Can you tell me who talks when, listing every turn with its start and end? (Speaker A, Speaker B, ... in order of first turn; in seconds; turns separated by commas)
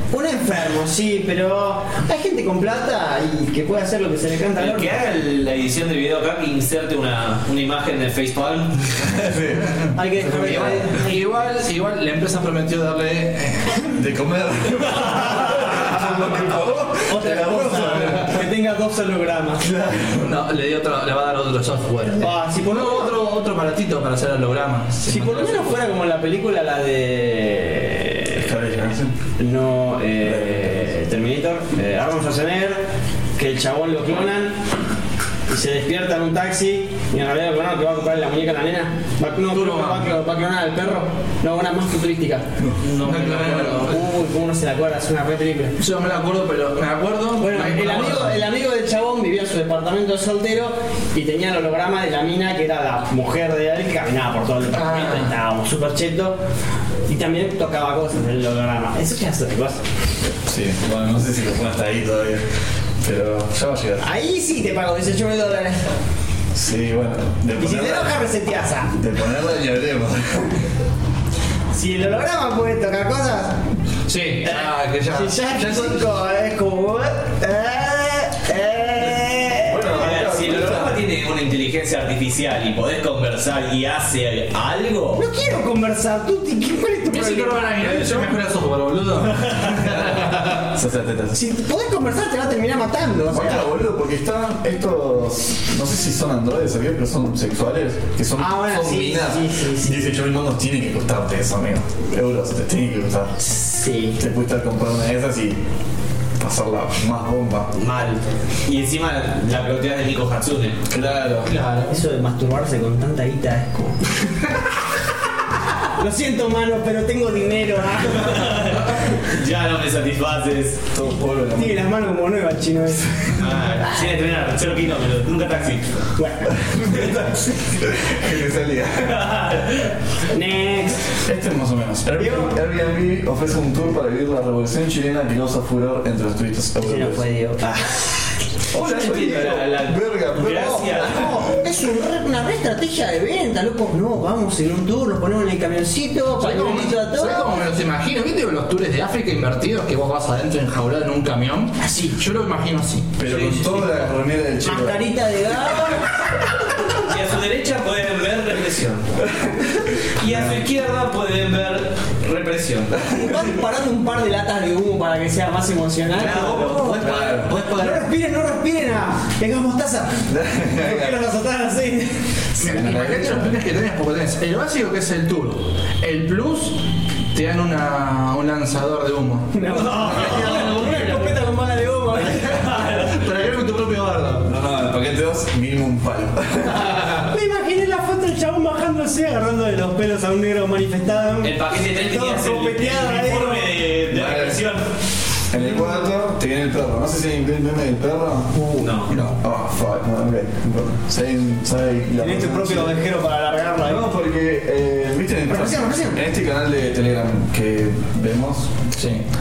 Speaker A: 0.1-5.0, Speaker B: 4.6-9.0, Speaker C: 9.0-10.9, Speaker A: 9.9-11.2, Speaker D: 10.5-13.9, Speaker C: 13.9-18.4, Speaker A: 15.9-19.7, Speaker D: 17.9-18.2, Speaker C: 19.6-20.4, Speaker D: 20.2-25.9, Speaker A: 22.2-23.2, Speaker A: 25.1-28.4, Speaker C: 28.3-29.2, Speaker A: 29.4-32.9, Speaker C: 30.2-30.9, Speaker A: 33.4-34.6, Speaker A: 35.5-42.5, Speaker D: 39.5-40.1, Speaker B: 42.8-44.0, Speaker D: 43.0-44.0, Speaker A: 43.8-45.8, Speaker D: 45.8-48.4, Speaker A: 47.4-56.4, Speaker D: 54.7-55.4, Speaker A: 57.1-59.8, Speaker C: 60.5-62.5, Speaker C: 63.0-64.0, Speaker A: 64.0-65.9, Speaker C: 66.5-68.3, Speaker A: 67.6-68.9, Speaker C: 68.9-70.6, Speaker A: 71.7-73.6, Speaker D: 74.1-76.0, Speaker A: 74.4-80.3, Speaker C: 79.6-81.0, Speaker B: 79.9-85.3, Speaker A: 85.2-88.3, Speaker D: 87.1-90.6, Speaker C: 89.8-91.4, Speaker A: 91.3-93.7, Speaker C: 93.3-103.4, Speaker A: 98.4-100.1, Speaker A: 103.4-104.2, Speaker C: 104.2-105.6, Speaker C: 106.4-107.7, Speaker B: 107.7-110.8, Speaker C: 110.9-111.5, Speaker D: 111.5-112.0, Speaker A: 111.9-114.1, Speaker A: 115.9-119.1, Speaker B: 118.4-120.8, Speaker C: 120.9-121.9, Speaker A: 121.5-123.4, Speaker C: 123.1-123.5, Speaker B: 123.4-126.0, Speaker A: 126.2-126.5, Speaker C: 126.5-129.5, Speaker B: 129.1-129.9, Speaker A: 130.3-131.1, Speaker C: 131.1-137.2, Speaker A: 132.2-132.6, Speaker A: 136.8-138.1, Speaker C: 138.7-141.4, Speaker B: 138.7-141.3, Speaker A: 140.4-147.5, Speaker D: 146.3-154.0, Speaker A: 151.8-152.2, Speaker C: 153.2-155.1, Speaker A: 154.6-156.2, Speaker B: 157.0-159.1, Speaker C: 159.3-160.6, Speaker B: 160.2-163.1, Speaker A: 163.1-167.1, Speaker B: 166.1-168.1, Speaker C: 166.8-167.7, Speaker A: 167.7-172.4, Speaker C: 170.3-171.2, Speaker D: 172.6-176.8, Speaker C: 172.6-173.5, Speaker D: 177.3-181.4, Speaker A: 179.5-183.1, Speaker D: 182.8-184.5, Speaker C: 184.4-186.9, Speaker A: 187.0-193.8, Speaker B: 191.4-194.9, Speaker C: 194.1-194.7, Speaker C: 195.5-203.0, Speaker A: 195.6-196.0, Speaker A: 198.5-199.1, Speaker B: 198.8-199.1, Speaker D: 199.1-199.3, Speaker A: 202.2-204.1, Speaker C: 203.8-208.7, Speaker A: 205.5-206.2, Speaker D: 209.0-209.2